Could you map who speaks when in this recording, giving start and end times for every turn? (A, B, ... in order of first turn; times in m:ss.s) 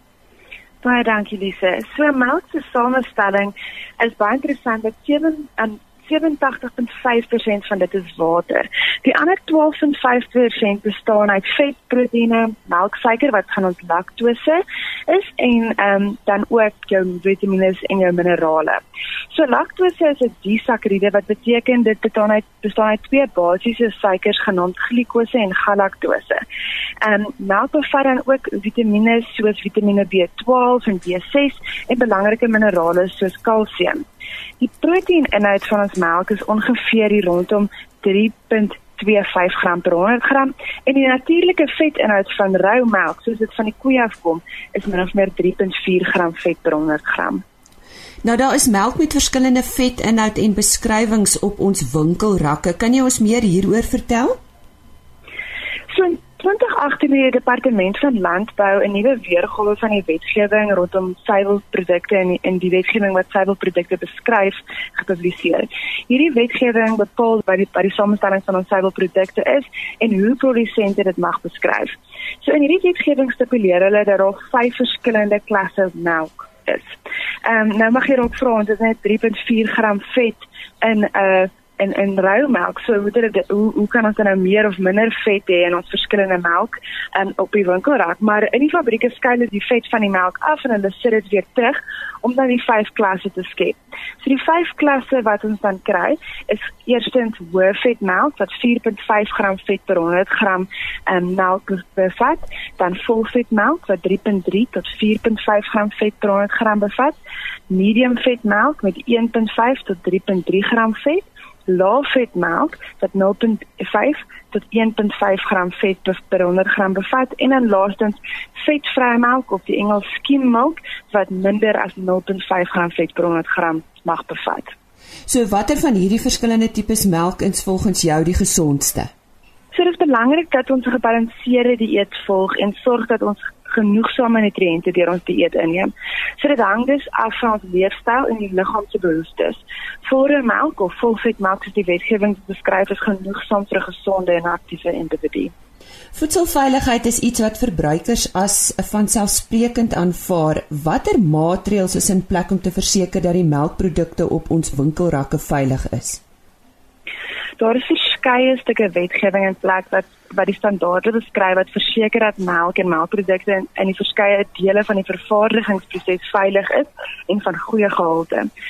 0:00.8-0:26.4 A
0:27.0-0:34.0 A
0:34.6-0:47.4 A
0:48.2-0:54.4 B
0:55.9-1:47.2 A
1:47.7-2:04.7 A
2:05.3-2:09.1 B
2:09.7-2:25.5 A
2:26.1-2:36.2 B
2:37.6-2:48.5 A